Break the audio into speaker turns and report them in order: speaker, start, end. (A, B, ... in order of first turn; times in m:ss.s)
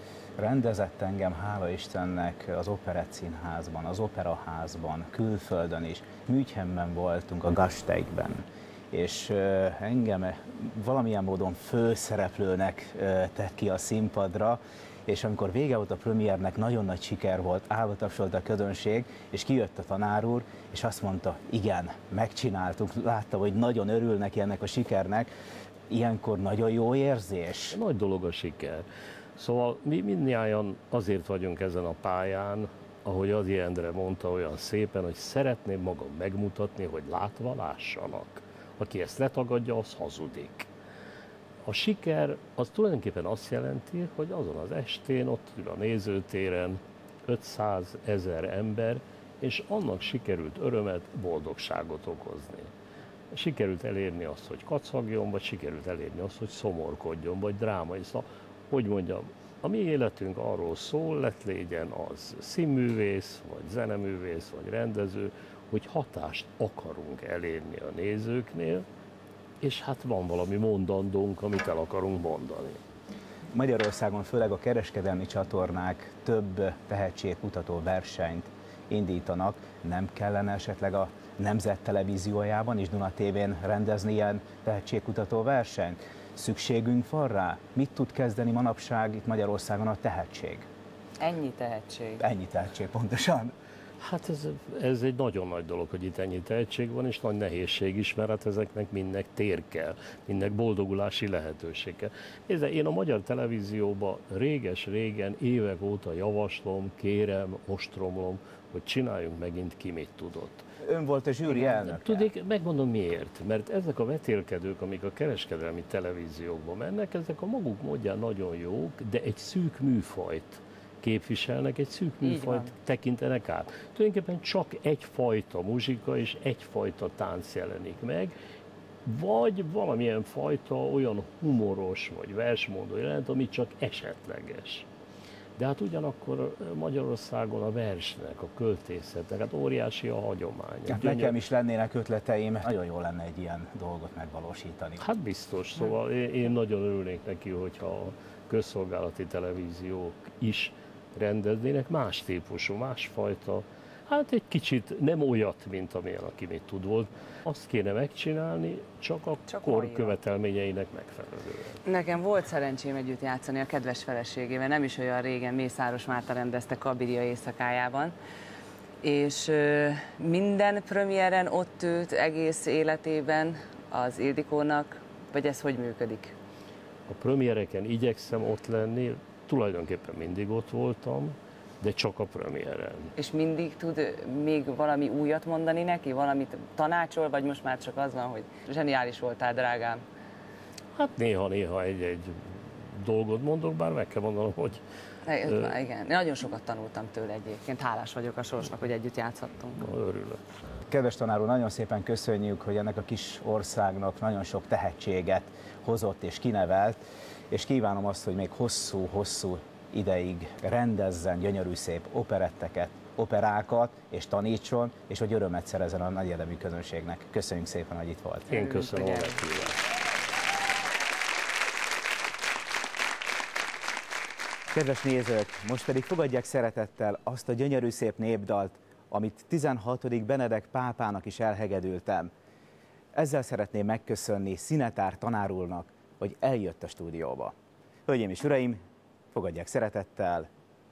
0:00.4-0:25.3 A
0:25.9-0:27.8 A
0:27.7-0:28.9 B
0:29.4-0:40.7 B
0:41.6-0:52.7 B
0:53.3-1:08.9 B
1:09.6-1:12.8 B
1:13.5-1:30.7 A
1:31.2-1:32.2 C
1:32.2-1:33.6 A
1:34.0-1:50.7 B
1:50.8-1:52.3 A
1:51.5-2:08.4 B
2:02.2-2:02.7 C
2:09.0-2:14.9 B
2:15.6-2:21.4 B
2:20.9-2:25.0 A
2:25.0-2:41.8 B
2:39.5-2:40.2 C
2:41.8-2:48.1 C
2:49.0-2:56.4 C
2:57.1-3:03.1 B
3:03.2-3:10.0 C
3:11.0-3:14.8 B
3:15.3-3:19.8 C
3:19.8-3:20.4 B
3:20.9-3:38.6 A
3:38.5-3:39.8 B
3:38.5-3:39.4 C
3:44.7-3:52.3 A
3:53.1-3:57.6 A
3:58.1-3:58.8 A
3:59.3-4:00.5 A